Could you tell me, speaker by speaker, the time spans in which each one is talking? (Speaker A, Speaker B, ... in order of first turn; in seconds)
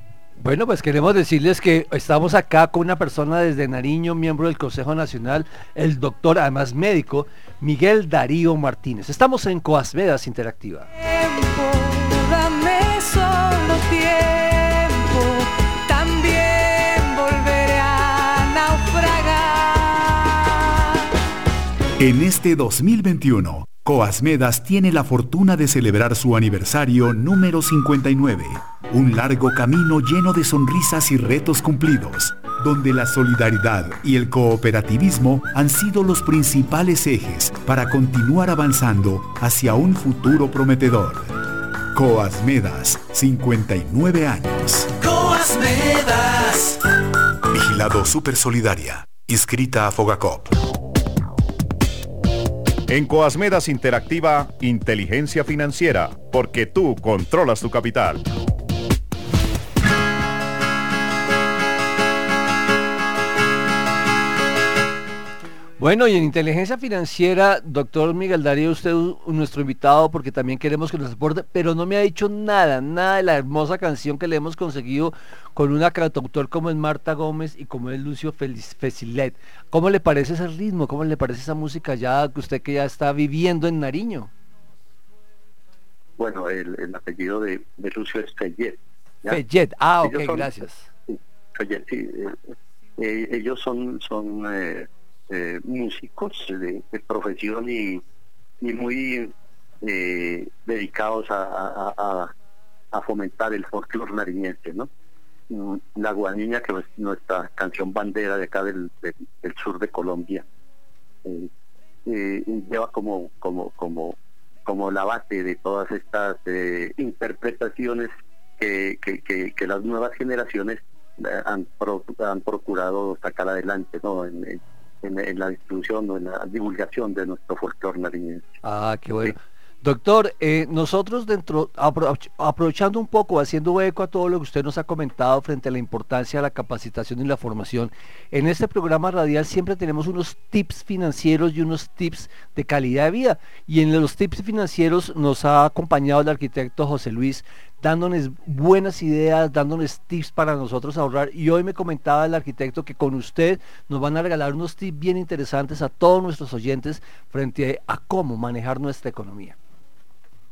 Speaker A: 0.4-10.9, 65.8-84.3, 89.3-90.9, 128.6-159.6
Speaker B: 11.0-20.9
Speaker C: 22.0-46.8, 47.5-50.5
Speaker D: 52.9-58.2
Speaker E: 86.2-89.4, 90.0-90.5, 91.1-92.4, 93.0-98.0, 98.6-102.3, 102.9-104.9, 105.5-110.5, 111.2-111.5, 112.1-128.5